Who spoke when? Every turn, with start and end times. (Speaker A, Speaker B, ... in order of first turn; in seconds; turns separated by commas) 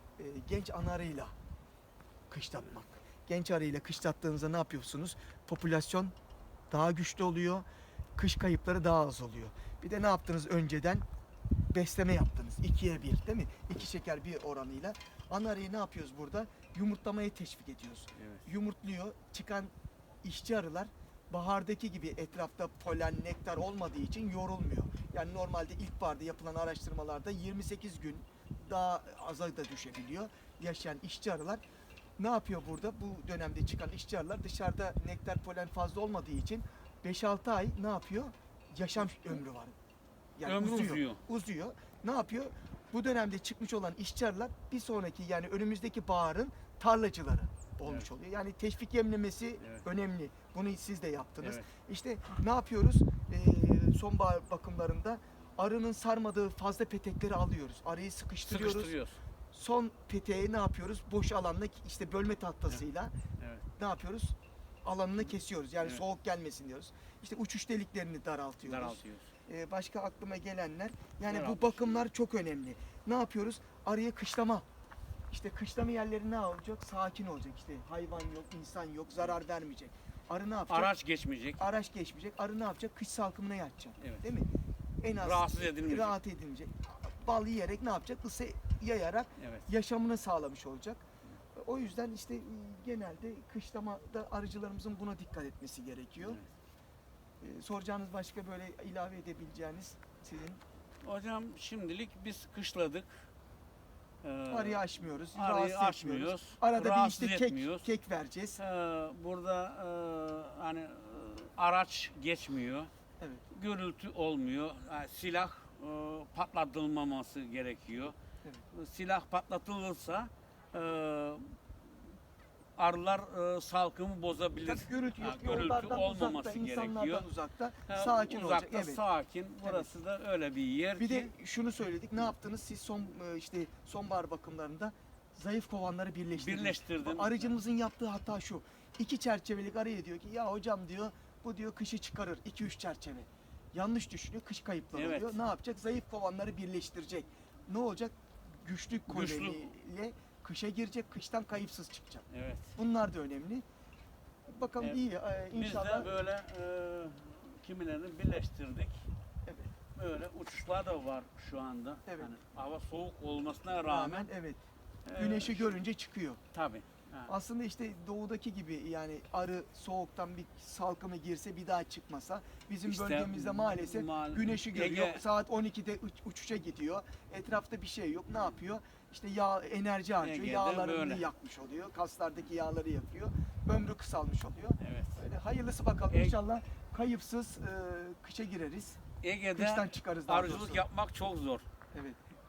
Speaker A: 0.2-1.4, Speaker A: 2.3-6.1, Speaker A: 6.7-7.7, Speaker A: 8.2-11.0, Speaker A: 11.7-19.7, Speaker B: 18.2-18.4, Speaker A: 20.2-31.6, Speaker A: 32.2-39.8, Speaker A: 40.4-58.9, Speaker B: 40.4-41.2, Speaker B: 49.6-49.9, Speaker B: 51.4-51.7, Speaker B: 58.5-59.2, Speaker A: 59.5-63.1, Speaker B: 63.4-63.6, Speaker A: 63.8-74.6, Speaker B: 68.7-69.3, Speaker B: 71.3-72.0, Speaker A: 75.3-80.9, Speaker B: 80.7-81.6, Speaker A: 81.6-84.5, Speaker B: 84.0-84.2, Speaker A: 85.0-96.4, Speaker B: 85.2-86.2, Speaker B: 89.4-89.7, Speaker B: 96.2-96.5, Speaker A: 97.4-100.6, Speaker B: 101.0-103.2, Speaker B: 104.2-107.9, Speaker A: 104.5-108.6, Speaker B: 108.6-112.9, Speaker A: 113.2-113.4, Speaker B: 113.5-118.1, Speaker B: 118.7-121.5, Speaker B: 122.8-127.2, Speaker A: 124.6-129.0, Speaker B: 127.9-131.3, Speaker A: 129.6-129.9, Speaker A: 131.0-153.6, Speaker B: 136.3-137.5, Speaker B: 144.9-145.4, Speaker B: 149.1-149.7, Speaker B: 152.3-152.8, Speaker A: 154.5-156.1, Speaker B: 155.5-159.1, Speaker A: 159.5-159.7, Speaker B: 159.9-164.3, Speaker A: 163.8-164.6, Speaker B: 165.1-165.8, Speaker A: 165.2-166.4, Speaker B: 166.5-167.3, Speaker A: 167.3-189.0, Speaker B: 172.9-175.2, Speaker B: 180.2-181.3, Speaker B: 184.8-185.2, Speaker B: 186.1-186.4, Speaker B: 189.2-191.7, Speaker A: 189.5-190.8, Speaker A: 191.9-192.2